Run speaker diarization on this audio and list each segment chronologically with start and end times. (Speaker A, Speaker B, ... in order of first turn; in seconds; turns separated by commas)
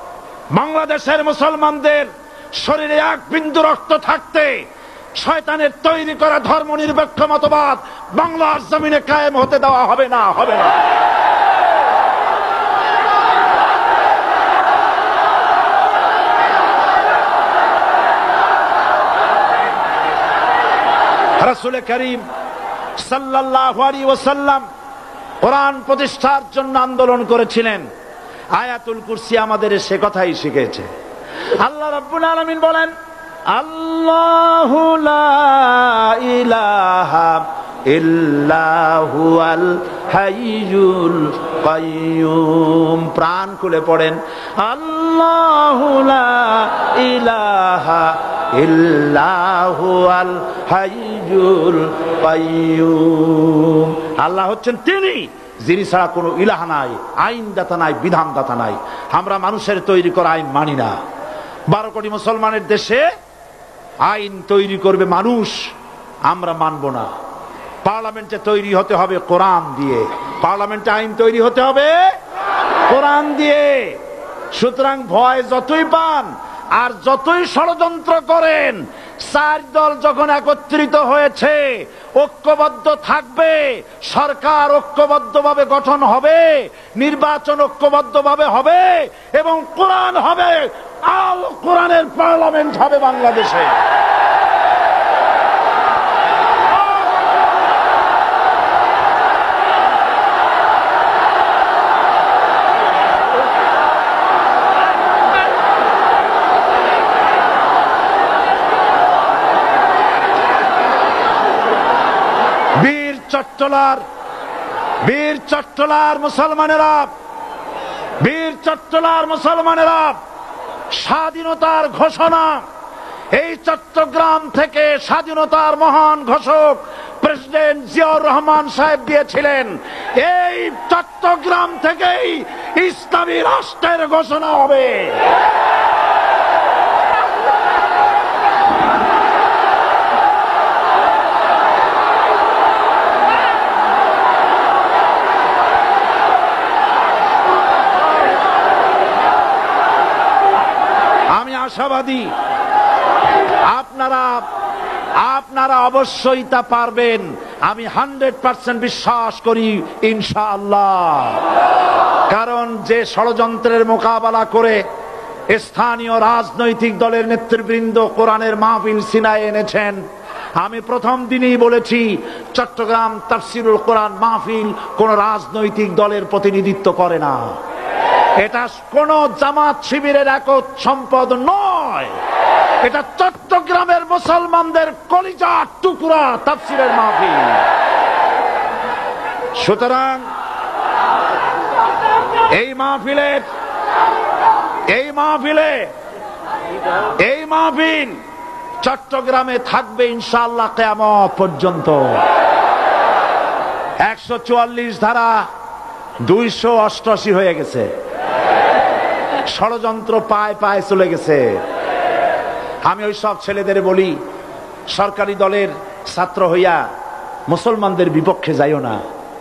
Speaker A: 0.5-4.6, Speaker A: 5.2-10.7, Speaker A: 21.4-22.2, Speaker A: 23.0-24.6, Speaker A: 25.4-27.8, Speaker A: 28.6-30.9, Speaker A: 31.6-32.9, Speaker A: 33.5-61.0, Speaker A: 61.7-63.1, Speaker A: 64.0-65.7, Speaker A: 66.3-67.1, Speaker A: 67.8-72.1, Speaker A: 72.9-74.0, Speaker A: 74.5-93.8, Speaker A: 112.8-114.0, Speaker A: 115.0-117.1, Speaker A: 118.2-120.2, Speaker A: 120.9-122.6, Speaker A: 123.3-135.3, Speaker A: 151.3-152.3, Speaker A: 153.7-154.5, Speaker A: 155.2-161.5, Speaker A: 162.3-164.8, Speaker A: 165.5-170.0, Speaker A: 170.6-177.6, Speaker A: 178.4-182.2, Speaker A: 182.8-187.7, Speaker A: 189.6-190.2, Speaker A: 192.5-193.4, Speaker A: 194.9-195.9, Speaker A: 197.2-198.2, Speaker A: 198.8-202.2, Speaker A: 204.0-205.5, Speaker A: 206.2-207.9, Speaker A: 209.5-211.6, Speaker A: 212.8-214.2, Speaker A: 214.9-216.8, Speaker A: 217.5-219.0